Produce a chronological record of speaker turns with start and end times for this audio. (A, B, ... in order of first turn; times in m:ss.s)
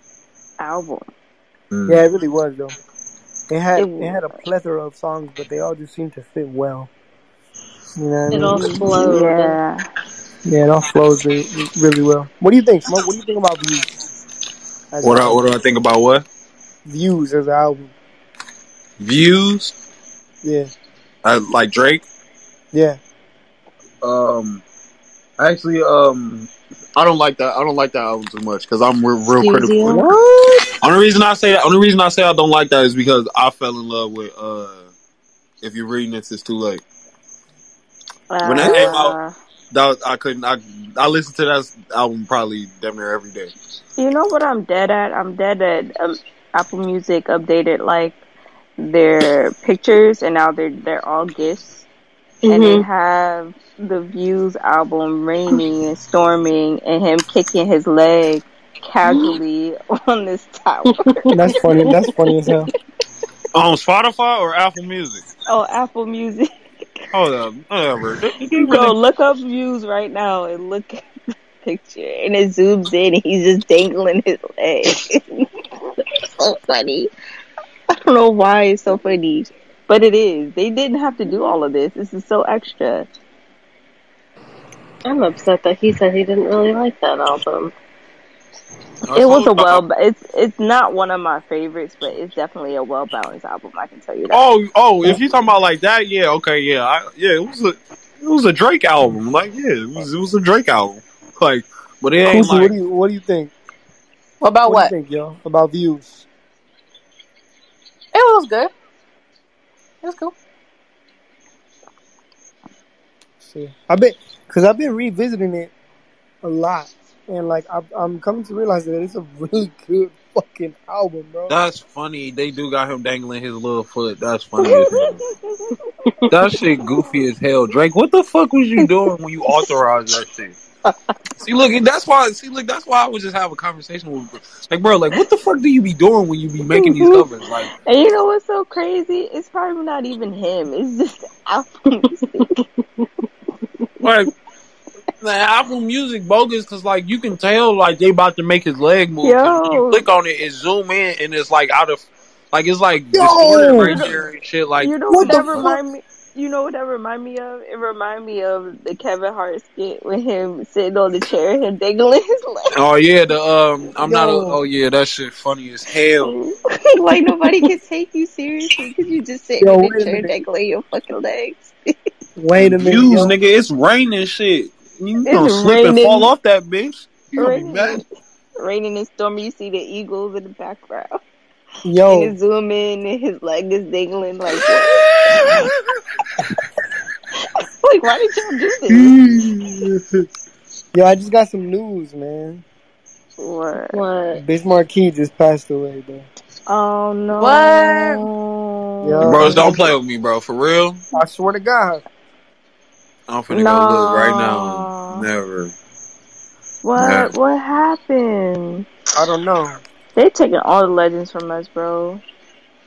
0:00.6-0:01.0 A
0:01.7-0:02.0 B
0:01.9-0:02.7 C
0:03.5-0:06.9 C
0:03.8-0:04.4 A
0:08.0-0:08.9 C
0:08.3-0:09.6 D
0:09.0-0:09.8 A
0:10.4-0:13.9 C
0:14.9-0:15.4 C
0:15.0-0:16.2 B
0:16.8-0:17.9 C
0:19.0-0:19.7 B
0:20.4-0:20.7 C
0:21.2-0:22.0 B
0:22.7-0:23.0 C
0:24.0-0:24.6 B
0:25.4-0:30.1 B
0:29.4-0:30.1 D
0:30.8-0:34.9 B
0:35.6-0:36.8 B
0:38.3-0:39.3 A
0:38.4-0:39.1 B
0:39.7-0:43.5 B
0:44.0-0:48.2 A
0:48.8-0:51.8 A
0:52.4-0:52.8 D
0:52.5-1:01.2 A
1:01.0-1:01.9 D
1:01.3-1:02.7 C
1:03.5-1:05.2 B
1:05.5-1:06.5 A
1:07.1-1:08.9 B
1:08.5-1:11.0 A
1:11.6-1:15.4 A
1:16.0-1:17.1 A
1:18.0-1:23.1 A
1:25.0-1:27.7 D
1:29.1-1:29.8 B
1:29.1-1:34.4 A
1:34.3-1:42.7 B
1:42.2-1:43.5 C
1:44.4-1:44.9 E
1:44.6-1:46.2 C
1:48.1-1:48.7 E
1:50.0-1:50.3 E
1:53.4-1:55.7 C
1:56.4-2:01.6 C
2:01.5-2:05.2 B
2:04.6-2:05.8 A
2:06.3-2:10.6 B
2:06.5-2:07.0 A
2:11.4-2:17.7 B
2:16.7-2:17.3 A
2:17.8-2:22.6 A
2:22.4-2:23.1 D
2:24.0-2:24.3 B
2:25.2-2:35.7 B
2:29.2-2:30.0 A
2:33.1-2:34.1 C
2:33.8-2:34.2 A
2:34.8-2:42.7 A
2:35.1-2:35.8 C
2:42.7-2:46.3 B
2:44.0-2:44.6 C
2:46.2-2:51.9 A
2:49.6-2:50.3 C
2:52.4-2:53.3 C
2:52.6-2:58.0 B
2:55.2-2:56.3 A
2:57.4-2:58.0 A
2:58.6-3:01.2 A
3:01.8-3:02.3 C
3:02.0-3:05.5 A
3:07.8-3:09.1 A
3:08.9-3:10.0 C
3:10.9-3:12.6 C
3:13.4-3:14.0 A
3:13.9-3:14.4 D
3:14.4-3:16.3 C
3:16.7-3:19.8 A
3:17.3-3:18.2 E
3:19.0-3:19.8 C
3:19.2-3:21.0 B
3:21.1-3:22.0 C
3:23.3-3:25.7 B
3:23.5-3:25.3 A
3:26.8-3:28.8 A
3:27.0-3:27.3 B
3:29.1-3:29.8 C
3:30.2-3:32.2 A